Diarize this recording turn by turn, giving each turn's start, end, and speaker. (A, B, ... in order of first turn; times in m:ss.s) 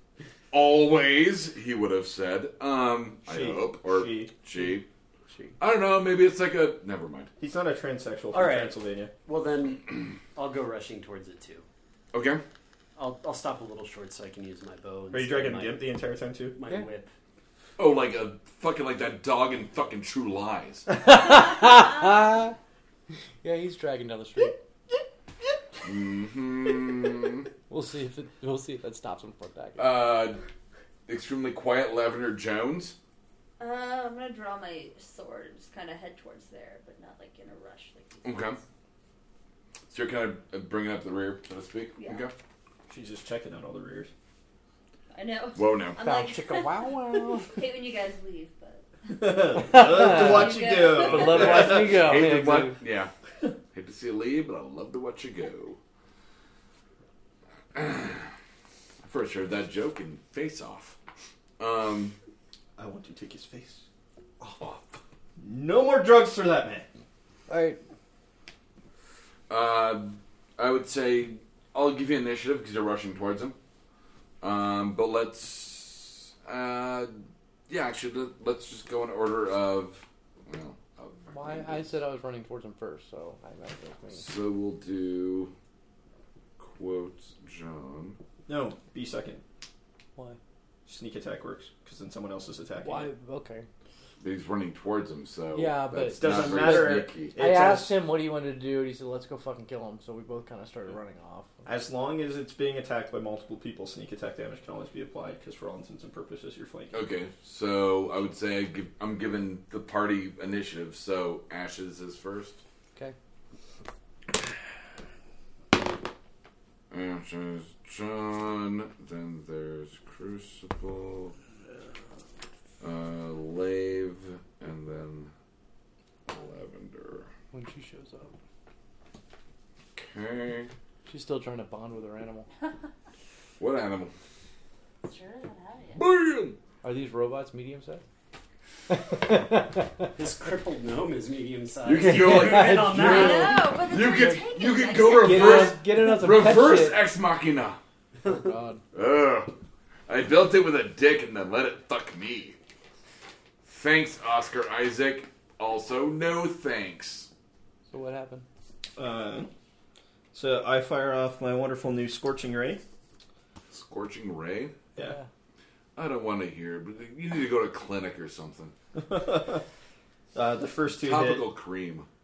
0:00.5-0:04.9 A
0:03.3-0:04.3 B
0:05.3-0:05.6 C
0:05.6-0:07.3 A
0:07.4-0:09.1 B
0:08.3-0:11.7 D
0:12.1-0:12.4 A
0:13.0-0:15.9 D
0:15.1-0:16.6 B
0:16.6-0:17.1 D
0:17.8-0:20.9 A
0:20.9-0:22.6 C
0:23.4-0:24.6 C
0:25.8-0:27.5 A
0:27.7-0:30.0 C
0:29.8-0:30.4 A
0:31.1-0:33.0 A
0:33.6-0:38.6 E
0:38.2-0:38.6 A
0:39.9-0:42.3 A
0:42.0-0:42.3 E
0:42.9-0:44.1 B
0:45.1-0:51.5 E
0:45.6-0:46.0 A
0:46.0-0:47.5 C
0:49.1-0:52.1 B
0:49.6-0:52.8 C
0:51.2-0:53.1 A
0:53.7-0:55.8 A
0:57.7-0:58.3 A
0:59.0-1:01.0 A
1:01.6-1:02.2 A
1:02.8-1:03.8 B
1:05.4-1:06.9 B
1:07.5-1:07.8 C
1:09.5-1:13.6 A
1:14.4-1:17.2 A
1:17.7-1:21.9 A
1:21.3-1:24.2 C
1:24.1-1:25.5 A
1:26.6-1:28.2 A
1:28.5-1:29.4 B
1:30.9-1:33.1 B
1:32.8-1:33.7 C
1:34.2-1:37.4 A
1:35.5-1:41.5 C
1:36.1-1:38.0 B
1:41.7-1:47.0 B
1:46.9-1:52.6 A
1:56.9-2:01.3 A
2:02.8-2:05.3 A
2:06.3-2:07.3 A
2:07.5-2:08.3 C
2:10.0-2:10.7 A
2:11.1-2:12.5 C
2:13.6-2:14.1 A
2:15.0-2:16.0 E
2:16.0-2:16.6 A
2:16.8-2:18.0 C
2:18.9-2:20.1 C
2:20.2-2:23.6 D
2:21.8-2:27.8 A
2:22.0-2:24.3 C
2:23.0-2:25.8 E
2:25.1-2:27.0 C
2:28.2-2:28.8 C
2:28.9-2:29.5 A
2:30.1-2:32.6 A
2:33.6-2:37.3 A
2:37.9-2:38.4 C
2:39.0-2:39.5 B
2:40.3-2:42.8 B
2:43.7-2:44.7 A
2:45.0-2:45.3 C
2:46.0-2:48.7 A
2:49.0-2:49.6 B
2:50.3-2:51.5 B
2:51.0-2:52.1 A